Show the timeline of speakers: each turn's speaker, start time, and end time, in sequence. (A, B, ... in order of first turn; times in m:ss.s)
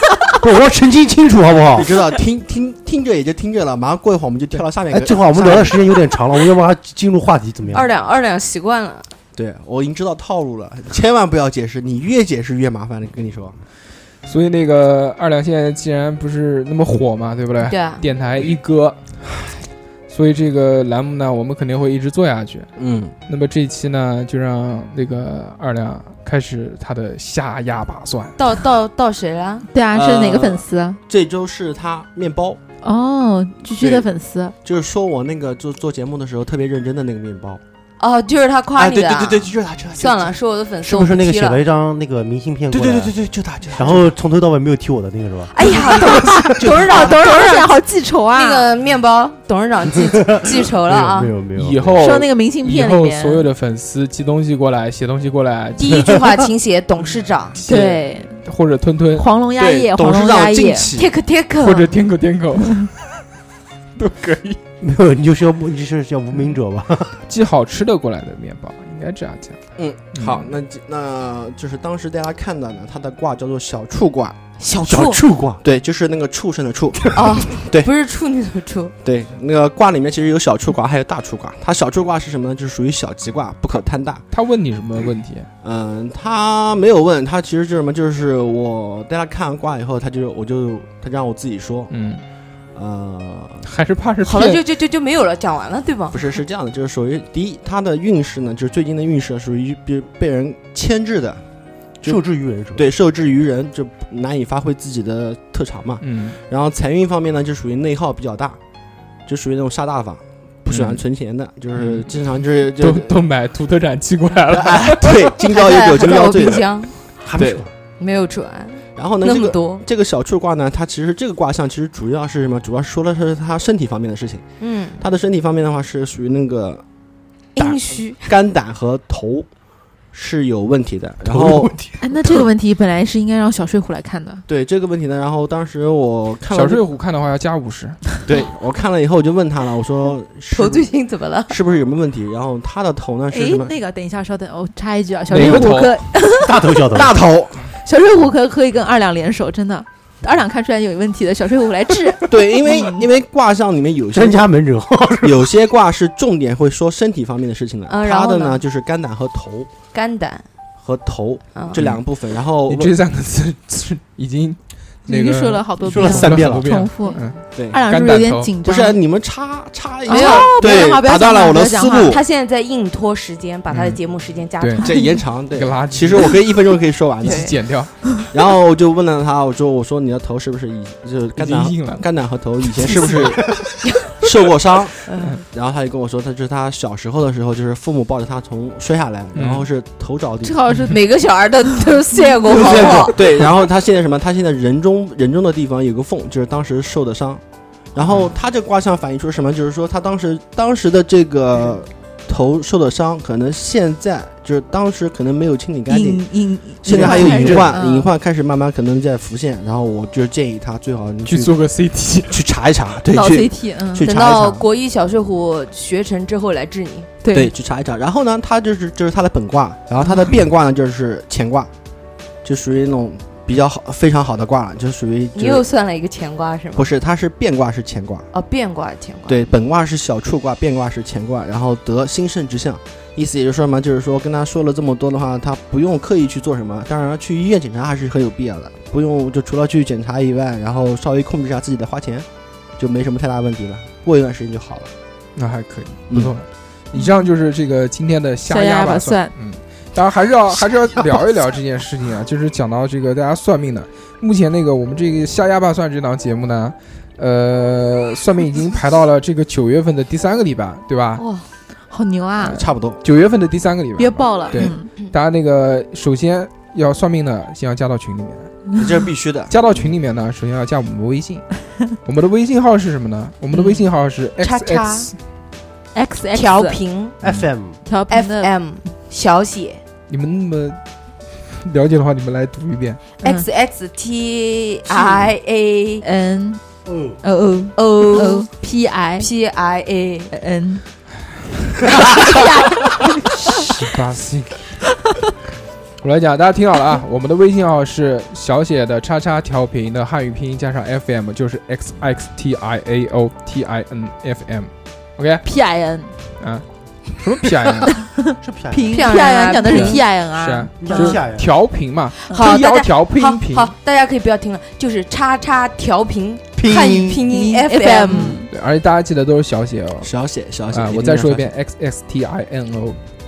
0:00.4-0:01.9 A
0:01.7-0:06.0 B
0:04.9-0:07.9 A
0:07.7-0:09.1 C
0:09.3-0:13.6 B
0:14.2-0:19.0 D
0:17.6-0:18.0 C
0:20.1-0:22.7 D
0:22.8-0:23.1 B
0:23.3-0:28.4 D
0:28.4-0:29.7 C
0:29.7-0:31.0 E
0:29.9-0:32.6 B
0:32.8-0:34.5 E
0:33.6-0:34.1 B
0:34.6-0:37.6 B
0:38.0-0:41.6 C
0:38.8-0:40.4 B
0:40.8-0:43.1 A
0:42.7-0:44.1 B
0:43.7-0:46.0 A
0:45.5-0:47.8 C
0:46.0-0:48.7 E
0:46.6-0:47.0 A
0:48.3-0:51.3 C
0:50.0-0:52.0 A
0:51.6-0:56.2 D
0:52.0-0:53.5 E
0:55.8-0:57.6 C
0:57.6-0:59.3 D
0:57.6-0:58.4 E
0:59.2-1:00.9 E
0:59.6-1:01.1 B
1:01.0-1:01.9 C
1:01.6-1:02.9 D
1:04.0-1:04.6 D
1:04.8-1:07.2 A
1:07.3-1:09.6 D
1:09.8-1:14.4 B
1:10.1-1:10.5 D
1:14.6-1:15.2 C
1:14.8-1:15.6 A
1:15.6-1:17.9 B
1:17.1-1:18.9 C
1:19.0-1:24.2 B
1:24.3-1:25.5 D
1:25.6-1:31.9 B
1:31.9-1:32.2 D
1:32.7-1:33.6 B
1:33.6-1:34.6 D
1:34.2-1:36.4 C
1:36.1-1:41.4 B
1:42.0-1:42.9 A
1:42.7-1:48.6 B
1:46.0-1:46.4 D
1:49.3-1:53.1 B
1:50.7-1:51.0 D
1:51.7-1:55.3 D
1:54.5-1:57.6 B
1:55.5-1:56.9 C
1:57.2-1:57.7 A
1:58.0-1:59.8 C
1:59.0-2:04.4 B
2:04.6-2:05.0 C
2:05.0-2:06.8 B
2:07.5-2:08.3 C
2:07.6-2:09.5 B
2:10.1-2:12.4 B
2:11.2-2:12.4 A
2:12.0-2:14.4 E
2:14.5-2:16.8 B
2:16.5-2:18.0 D
2:18.2-2:20.9 B
2:20.5-2:21.6 C
2:21.5-2:23.7 B
2:23.3-2:26.5 E
2:25.3-2:26.0 D
2:26.4-2:27.2 A
2:26.9-2:27.7 B
2:27.8-2:33.0 E
2:32.3-2:34.5 B
2:34.1-2:35.6 A
2:35.2-2:39.7 B
2:37.9-2:38.6 C
2:39.9-2:40.4 C
2:40.8-2:42.9 B
2:41.7-2:42.0 D
2:42.7-2:48.5 D
2:45.0-2:49.0 E
2:45.8-2:46.6 A
2:47.0-2:47.3 C
2:47.5-2:52.2 B
2:50.1-2:52.2 E
2:50.1-2:50.9 C
2:52.1-2:55.2 C
2:53.7-2:54.0 D
2:54.6-2:54.9 D
2:54.8-2:57.5 B
2:54.8-2:55.1 E
2:55.4-2:56.6 D
2:57.2-2:58.0 D
2:57.2-2:57.5 C
2:58.3-3:10.6 B
3:01.4-3:02.0 D
3:02.6-3:03.6 D
3:03.9-3:04.1 C
3:05.0-3:05.4 C
3:09.3-3:09.6 D
3:10.4-3:11.0 E
3:10.7-3:13.2 C
3:12.5-3:13.1 A
3:12.5-3:17.4 B
3:17.9-3:31.5 B
3:25.9-3:28.1 E
3:26.9-3:27.7 A
3:31.2-3:32.4 D
3:32.3-3:34.6 B
3:33.1-3:34.0 E
3:34.0-3:37.1 C
3:37.2-3:37.5 E
3:37.3-3:41.7 B
3:42.4-3:45.6 B
3:45.3-3:46.9 C
3:46.7-3:48.3 B
3:48.3-3:49.5 C
3:49.3-4:02.2 B
4:02.8-4:04.9 B
4:05.4-4:21.2 D
4:08.4-4:09.3 E
4:21.2-4:21.5 C
4:21.9-4:22.6 E
4:22.4-4:28.5 D
4:22.5-4:23.0 B
4:24.0-4:24.9 E
4:28.8-4:29.9 B
4:29.5-4:31.4 D
4:32.0-4:35.1 D
4:33.5-4:33.8 C
4:34.4-4:35.1 C
4:35.9-4:36.8 E
4:36.3-4:37.2 C
4:37.2-4:37.8 A
4:37.8-4:38.5 E
4:38.1-4:39.8 C
4:40.1-4:40.8 D
4:41.5-4:43.0 D
4:43.2-4:46.0 C
4:46.0-4:46.6 E
4:46.8-4:47.2 A
4:47.2-4:49.3 E
4:47.8-4:48.5 C
4:49.2-4:50.3 C
4:50.3-4:50.8 E
4:52.1-4:53.6 E
4:53.5-4:54.8 D
4:56.0-5:05.4 D
5:05.4-5:06.1 E
5:06.4-5:08.0 D
5:08.0-5:11.2 E
5:08.4-5:09.0 A
5:08.9-5:10.0 C
5:09.6-5:13.7 D
5:10.8-5:11.5 A
5:12.2-5:18.4 C
5:16.6-5:17.2 A
5:17.3-5:18.5 E
5:18.1-5:20.1 D
5:20.0-5:21.4 B
5:20.7-5:23.0 D